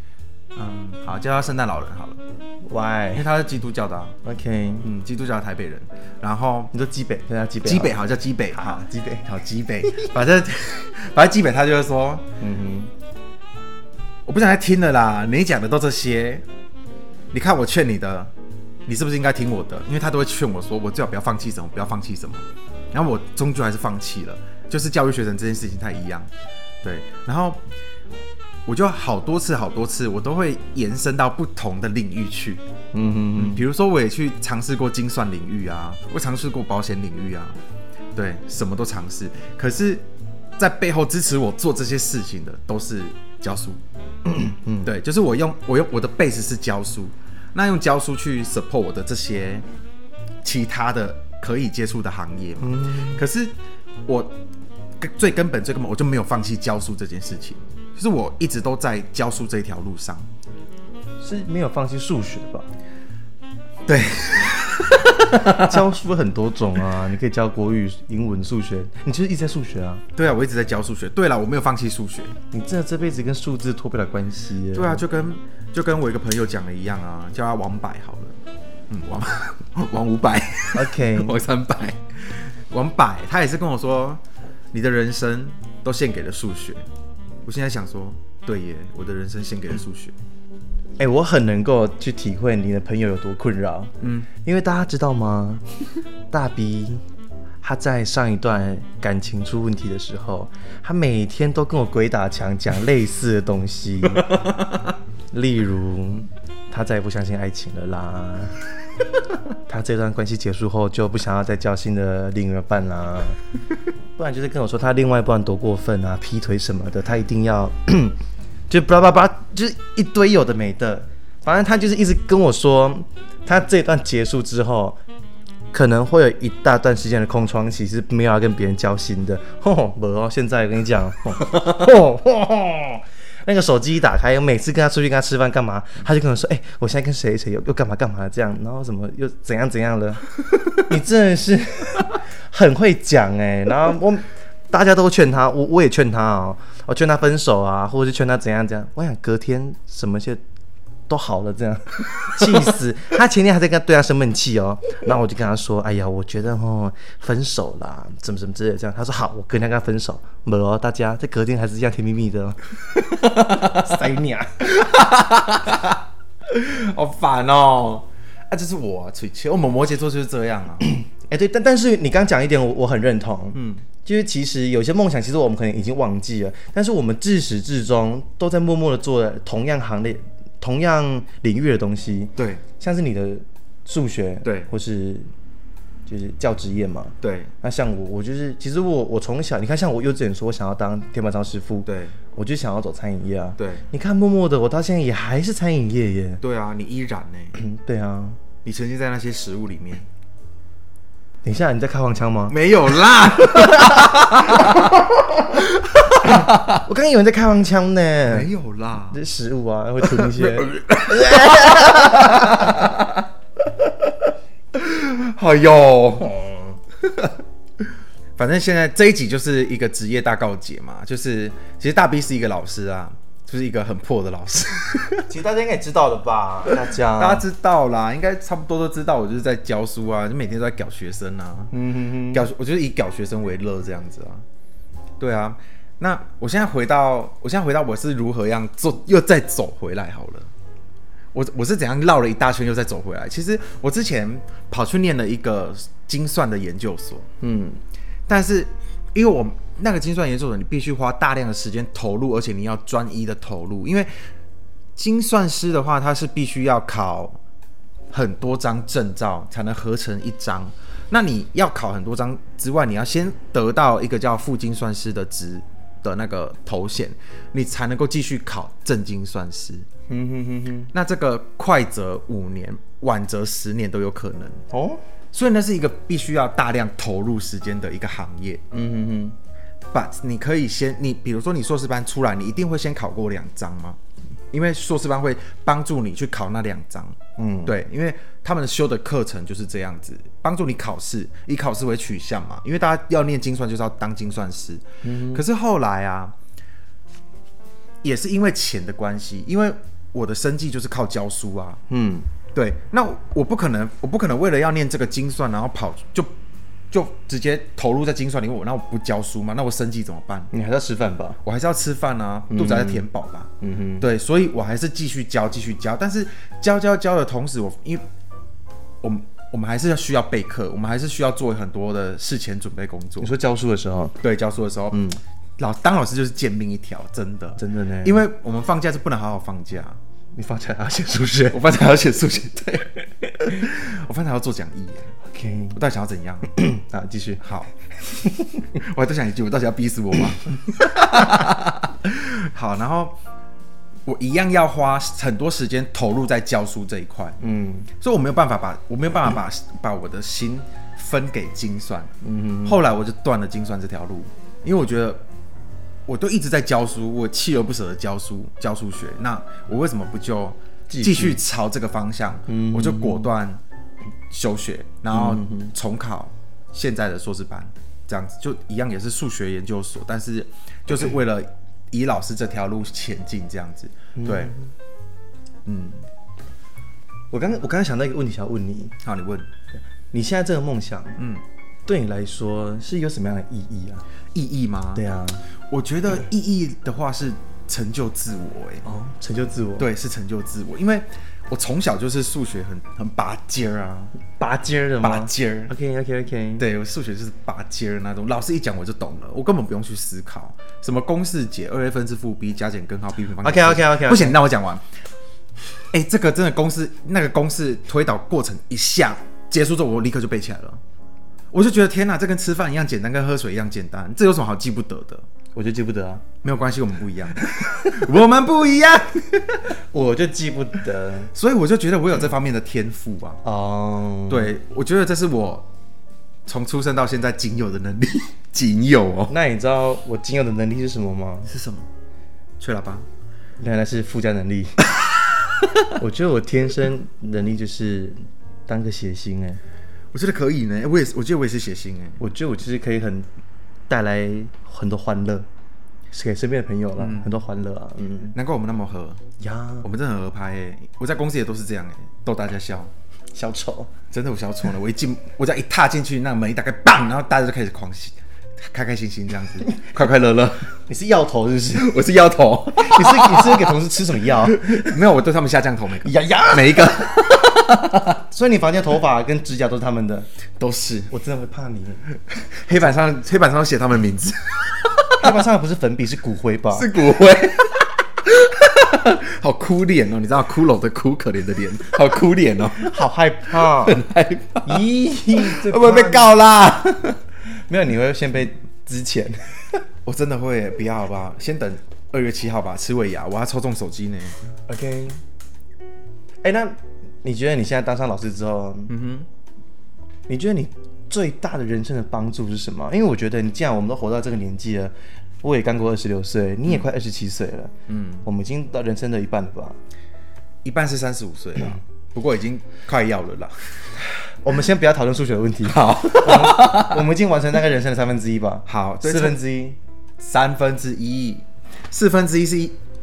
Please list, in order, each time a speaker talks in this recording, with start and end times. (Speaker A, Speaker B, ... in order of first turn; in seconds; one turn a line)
Speaker A: 0.5-2.2
Speaker B: 2.6-3.2
Speaker A: 3.1-4.1
Speaker B: 4.2-5.0
Speaker A: 4.9-6.7
Speaker B: 6.7-8.0
Speaker A: 7.6-12.2
Speaker B: 8.5-9.4
Speaker B: 12.4-12.9
Speaker A: 14.2-16.4
Speaker A: 17.3-18.3
Speaker A: 18.9-26.3
Speaker A: 26.8-27.6
Speaker A: 28.6-32.6
Speaker B: 32.9-33.6
Speaker A: 33.4-37.6
Speaker A: 38.1-40.0
Speaker A: 40.6-43.8
Speaker B: 44.3-44.9
Speaker A: 44.8-49.6
Speaker A: 50.4-53.5
Speaker B: 52.6-53.2
Speaker A: 54.0-54.3
Speaker A: 55.0-60.3
Speaker B: 61.2-62.7
Speaker A: 63.9-65.8
Speaker B: 65.4-70.0
Speaker A: 70.1-72.3
Speaker B: 72.5-75.0
Speaker A: 74.7-78.4
Speaker A: 78.9-86.8
Speaker B: 80.7-81.4
Speaker A: 87.4-90.1
Speaker B: 91.0-95.6
Speaker A: 94.0-94.3
Speaker B: 96.3-97.0
Speaker B: 97.6-104.4
Speaker B: 105.3-108.5
Speaker B: 109.7-113.4
Speaker B: 114.2-118.2
Speaker B: 118.7-125.0
Speaker B: 125.7-150.4
Speaker B: 151.1-162.6
Speaker B: 163.6-164.7
Speaker A: 164.7-170.9
Speaker B: 170.8-185.3
Speaker A: 173.5-173.8
Speaker A: 182.4-182.6
Speaker A: 184.4-184.7
Speaker B: 186.1-196.4
Speaker A: 187.2-187.5
Speaker A: 191.8-192.1
Speaker A: 193.6-193.8
Speaker A: 196.4-197.5
Speaker B: 197.5-198.4
Speaker A: 198.6-200.1
Speaker B: 201.4-202.6
Speaker A: 202.5-206.8
Speaker B: 203.5-204.8
Speaker B: 206.2-208.5
Speaker A: 208.3-209.2
Speaker B: 209.1-212.8
Speaker A: 210.0-213.2
Speaker A: 214.7-216.5
Speaker A: 218.4-225.2
Speaker B: 225.3-227.4
Speaker A: 227.2-231.7
Speaker B: 231.7-232.4
Speaker A: 232.3-234.4
Speaker A: 235.2-240.5
Speaker A: 241.3-247.3
Speaker B: 247.4-247.8
Speaker A: 248.3-254.1
Speaker A: 254.9-257.4
Speaker A: 258.1-269.9
Speaker B: 270.1-270.9
Speaker A: 270.9-274.6
Speaker B: 274.7-275.0
Speaker A: 275.3-278.6
Speaker B: 278.7-279.4
Speaker A: 279.9-284.0
Speaker A: 284.5-296.3
Speaker B: 287.4-287.7
Speaker B: 295.0-295.4
Speaker A: 298.0-301.8
Speaker B: 301.9-302.3
Speaker A: 302.5-306.3
Speaker A: 306.9-310.5
Speaker B: 310.5-311.4
Speaker A: 311.4-318.0
Speaker B: 312.5-313.0
Speaker B: 313.6-314.1
Speaker A: 319.0-323.3
Speaker B: 323.2-324.1
Speaker A: 324.2-325.0
Speaker B: 324.9-325.2
Speaker A: 325.6-330.0
Speaker B: 327.6-328.3
Speaker B: 330.4-331.7
Speaker A: 331.5-335.1
Speaker B: 335.2-335.8
Speaker A: 335.7-336.5
Speaker B: 336.5-337.4
Speaker A: 337.4-337.7
Speaker B: 338.1-338.6
Speaker A: 338.7-343.2
Speaker A: 344.1-347.4
Speaker B: 347.4-347.9
Speaker A: 348.0-352.1
Speaker B: 352.2-352.8
Speaker A: 352.6-355.2
Speaker A: 356.1-363.6
Speaker B: 360.9-361.4
Speaker B: 362.5-363.3
Speaker A: 364.3-374.5
Speaker B: 365.1-365.7
Speaker B: 374.1-374.7
Speaker A: 375.6-376.0
Speaker B: 377.3-378.9
Speaker A: 379.0-379.5
Speaker B: 380.1-381.2
Speaker A: 381.2-381.4
Speaker B: 381.9-384.0
Speaker A: 384.3-385.0
Speaker B: 384.9-385.4
Speaker A: 385.7-388.8
Speaker B: 388.8-389.9
Speaker A: 389.8-394.1
Speaker B: 394.3-396.6
Speaker A: 395.0-395.7
Speaker A: 396.6-404.8
Speaker B: 403.4-404.4
Speaker A: 405.9-410.8
Speaker A: 411.5-415.2
Speaker B: 415.5-416.2
Speaker A: 416.4-419.6
Speaker B: 419.9-421.3
Speaker A: 421.3-423.4
Speaker B: 423.4-424.5
Speaker A: 424.3-425.6
Speaker A: 426.4-429.3
Speaker B: 429.3-431.5
Speaker A: 431.5-431.9
Speaker A: 432.6-433.1
Speaker B: 433.6-434.9
Speaker B: 435.9-439.6
Speaker A: 440.1-442.2
Speaker B: 442.2-443.3
Speaker B: 443.9-445.5
Speaker B: 446.1-448.3
Speaker A: 447.0-447.3
Speaker A: 448.3-449.2
Speaker B: 449.4-449.9
Speaker A: 449.8-452.9
Speaker B: 453.3-453.9
Speaker A: 454.1-460.7
Speaker B: 460.9-462.0
Speaker A: 461.7-463.8
Speaker B: 462.8-464.9
Speaker A: 464.4-468.2
Speaker B: 466.0-467.1
Speaker B: 468.3-470.3
Speaker A: 470.6-471.1
Speaker B: 471.1-472.0
Speaker A: 472.5-475.4
Speaker B: 475.2-476.9
Speaker A: 476.7-482.9
Speaker B: 482.8-484.0
Speaker A: 483.5-487.2
Speaker B: 484.6-486.3
Speaker B: 487.7-489.8
Speaker A: 490.0-494.4
Speaker B: 494.7-495.2
Speaker B: 496.4-498.9
Speaker A: 498.9-499.3
Speaker B: 500.3-507.7
Speaker A: 507.9-508.2
Speaker B: 508.2-509.8
Speaker A: 510.6-513.8
Speaker B: 514.2-519.8
Speaker A: 515.6-517.0
Speaker A: 518.7-519.4
Speaker A: 520.2-522.8